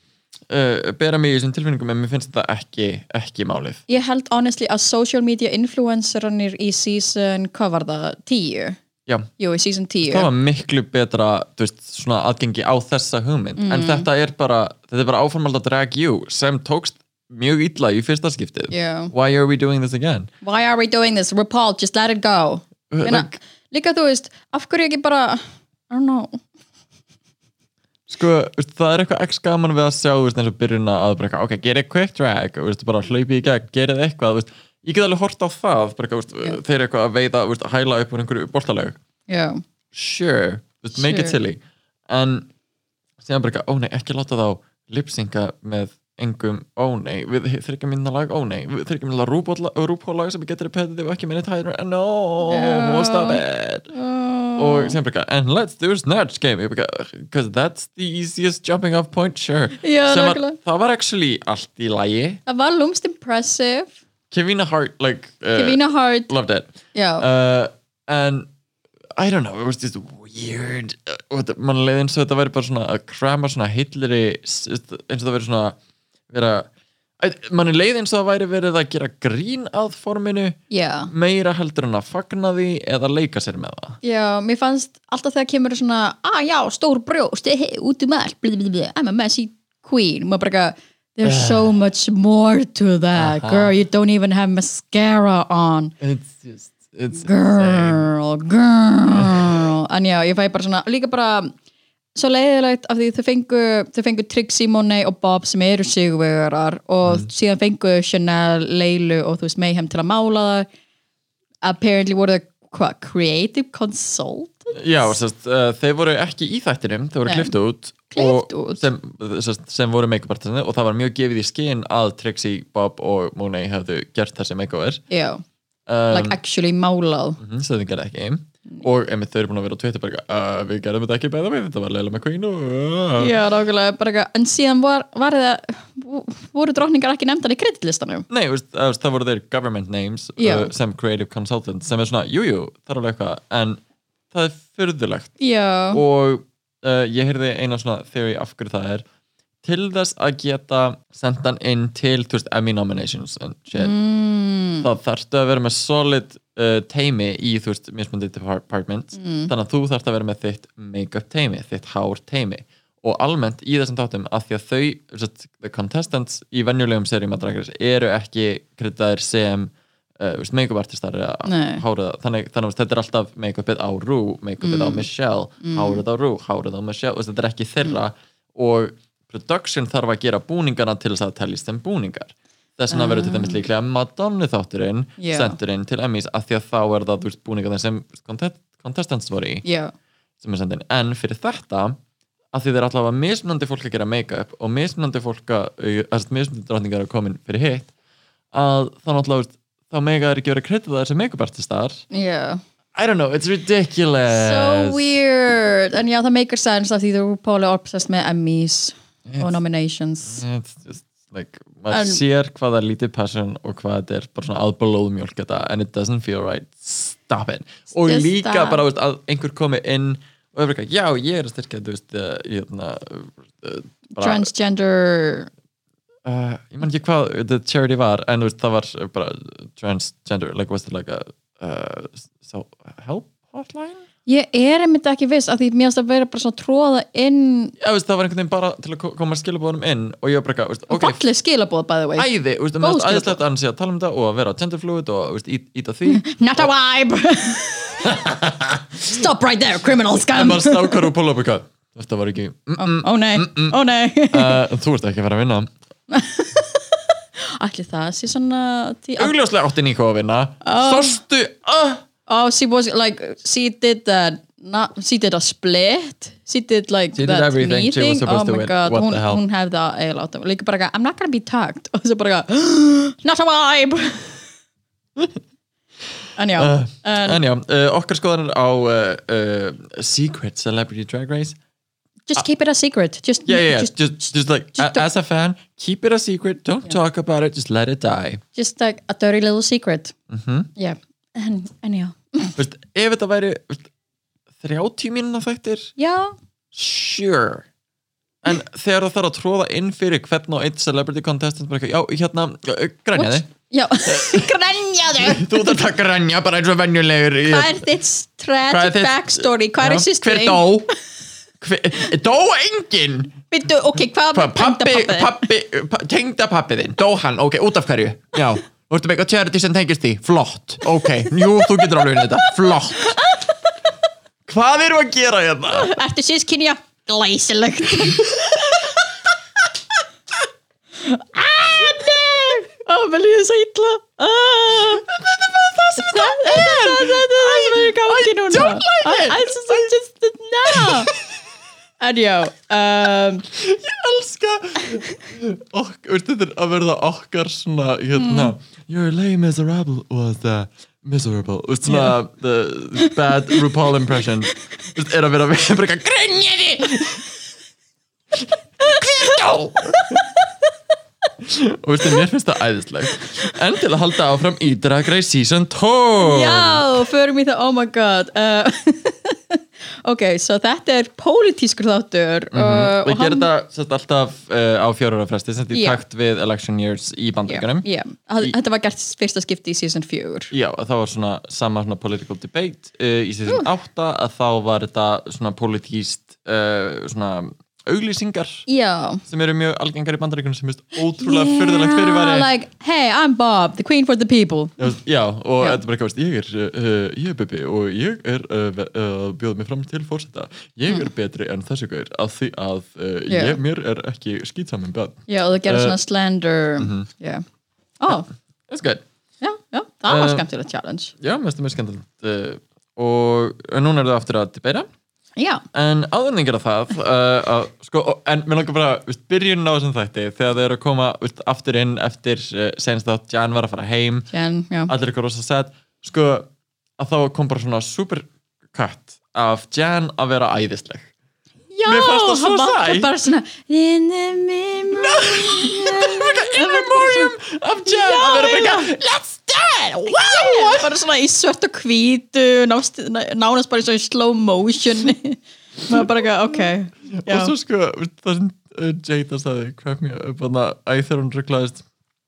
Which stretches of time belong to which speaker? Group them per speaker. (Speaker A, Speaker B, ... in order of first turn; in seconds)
Speaker A: 0.5-3.8, 10.0-20.3, 22.9-23.4, 28.1-39.0, 39.9-42.5, 43.2-53.9, 54.6-62.4, 64.3-68.5, 69.2-75.8, 76.3-76.7, 77.2-80.6, 81.1-84.0, 91.2-91.7, 93.2-93.7, 96.0-98.1, 99.1-99.6, 114.7-125.0, 125.9-126.4, 127.4-133.3, 138.3-143.8, 144.3-145.3, 145.9-149.0, 149.6-153.9, 154.8-189.6, 190.4-192.0, 192.5-197.9, 198.5-202.0, 202.9-205.1, 209.3-209.5, 210.3-224.5, 226.2-234.0, 237.8-241.2, 242.2-246.7, 248.0-249.2, 250.3-253.8, 254.3-255.7, 259.2-262.0, 267.1-269.4, 276.6-281.6, 283.4-288.4, 290.3-290.7, 292.6-293.9, 294.6-295.9, 296.7-297.6, 298.4-303.5, 304.0-304.5, 305.1-307.8, 308.7-310.9, 311.6-313.3, 314.3-323.2, 324.5-325.9, 328.0-328.6, 331.7-332.3, 335.0-339.9, 340.7-341.1, 343.5-357.2, 358.3-360.2, 361.4-366.9, 372.5-377.9, 380.5-388.6, 389.3-392.5, 394.8-406.0, 406.8-407.1, 408.7-409.0, 410.1-410.4, 411.2-414.9, 415.7-424.3, 424.9-431.1, 431.8-433.1, 434.9-440.9, 447.1-451.8
Speaker B: 3.9-8.8, 9.4-10.3, 13.6-14.1, 18.7-19.1, 20.4-26.4, 39.3-39.6, 40.9-41.4, 52.5-55.0, 59.8-60.6, 62.5-63.9, 65.5-66.3, 66.9-67.2, 80.7-81.1, 84.0-95.9, 97.2-101.5, 102.1-110.7, 111.6-114.8, 117.2-117.5, 118.1-118.8, 125.1-125.4, 126.1-127.4, 133.2-138.2, 140.4-140.7, 145.4-146.0, 153.8-154.9, 159.2-159.5, 171.4-171.8, 174.6-175.1, 175.6-176.0, 182.9-183.6, 185.2-185.6, 189.6-189.9, 202.1-202.6, 204.3-210.4, 211.9-212.2, 218.0-218.8, 224.1-225.5, 234.2-237.7, 240.9-242.3, 242.8-243.4, 246.1-248.2, 249.0-251.1, 252.8-254.6, 256.1-259.3, 260.6-261.2, 262.3-274.4, 276.4-277.4, 282.3-285.0, 288.5-290.1, 290.8-292.6, 296.0-296.3, 303.1-305.8, 307.4-310.7, 313.5-315.5, 321.0-323.7, 325.7-329.0, 331.0-335.1, 335.9-341.1, 342.0-343.4, 348.1-348.5, 351.9-352.1, 353.0-353.6, 359.9-360.2, 366.2-373.5, 375.7-376.0, 377.5-380.5, 388.7-389.2, 391.1-394.9, 403.3-403.6, 405.3-407.4, 408.0-408.3, 409.4-411.1, 415.4-415.6, 424.3-424.9, 431.7-438.9, 440.1-447.5